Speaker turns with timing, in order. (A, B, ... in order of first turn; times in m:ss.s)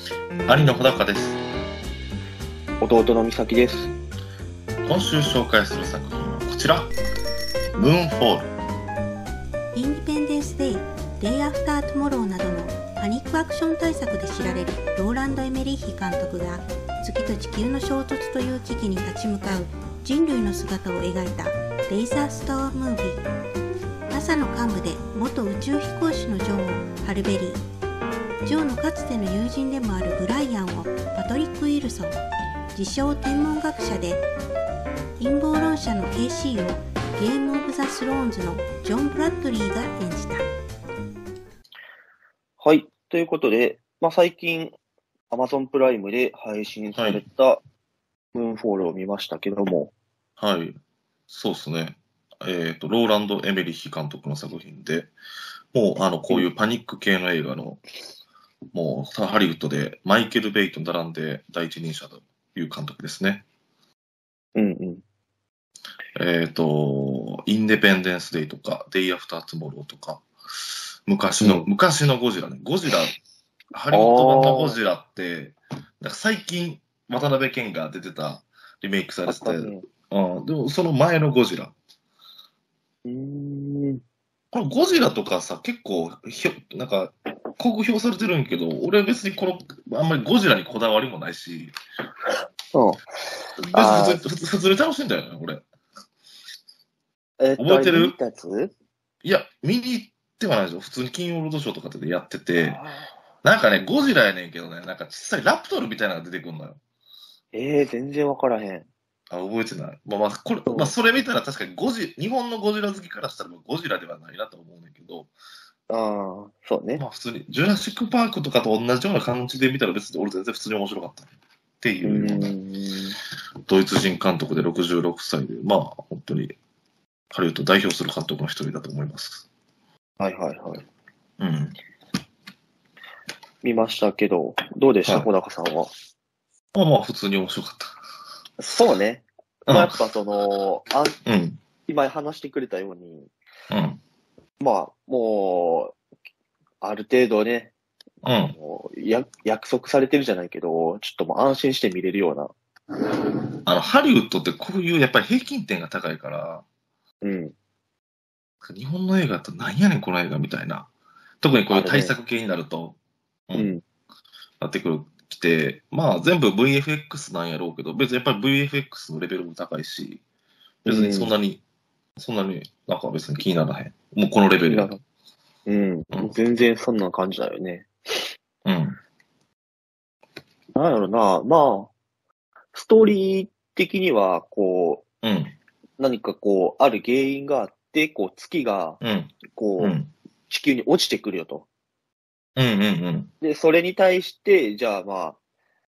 0:00.5-0:01.4 A
0:02.8-0:03.9 B
0:04.8-0:06.9 A
0:07.7-0:08.5 A
0:09.7-0:23.2 C
0:24.1-0:27.6 C
0:28.4-0:32.2 C
0:32.7-0:34.2 C
0:35.2-0:40.4 C
0:42.6-0:44.8 B
0:45.3-0:47.6 B
0:46.9-0:47.2 A
0:48.3-0:49.9 B
0:50.4-0:50.8 A
0:51.3-0:55.1 A
0:55.7-0:57.8 A
0:58.7-1:03.4 A
1:04.6-1:05.0 B
1:06.2-1:10.2 A
1:11.1-1:13.1 A
1:11.4-1:11.7 B
1:13.7-1:21.7 A
1:13.9-1:14.8 B
1:19.3-1:19.8 B
1:23.0-1:24.0 B
1:24.5-1:31.7 A
1:32.7-1:33.0 B
1:33.6-1:35.6 A
1:33.7-1:34.2 B
1:37.4-1:38.7 B
1:37.6-1:38.2 A
1:39.2-1:42.8 A
1:42.6-1:43.1 B
1:43.4-1:46.8 A
1:47.5-1:48.9 B
1:49.3-1:55.3 A
1:50.7-1:50.9 B
1:55.9-1:57.0 B
1:57.0-2:01.3 A
2:01.8-2:02.5 A
2:02.0-2:03.2 B
2:03.7-2:06.5 A
2:07.3-2:09.4 A
2:10.2-2:10.8 B
2:11.4-2:11.8 A
2:13.6-2:15.9 B
2:16.7-2:17.9 A
2:18.6-2:21.2 B
2:19.7-2:20.0 A
2:21.2-2:21.6 A
2:21.9-2:23.3 B
2:23.7-2:24.0 A
2:24.6-2:26.0 B
2:26.8-2:27.7 B
2:28.2-2:28.5 A
2:28.4-2:32.5 B
2:33.6-2:36.6 A
2:37.2-2:37.5 B
2:38.6-2:40.9 A
2:41.4-2:43.0 A
2:41.7-2:42.1 B
2:43.5-2:43.7 A
2:43.5-2:43.8 B
2:44.6-2:50.2 A
2:50.8-2:51.3 B
2:50.8-2:51.6 A
2:52.2-2:54.9 A
2:54.7-2:55.0 B
2:55.6-2:58.2 B
2:58.6-2:59.0 A
3:00.7-3:01.9 B
3:02.7-3:05.0 B
3:05.2-3:05.5 A
3:06.0-3:10.0 B
3:09.0-3:10.1 A
3:10.5-3:11.7 B
3:12.6-3:13.3 A
3:13.4-3:15.4 B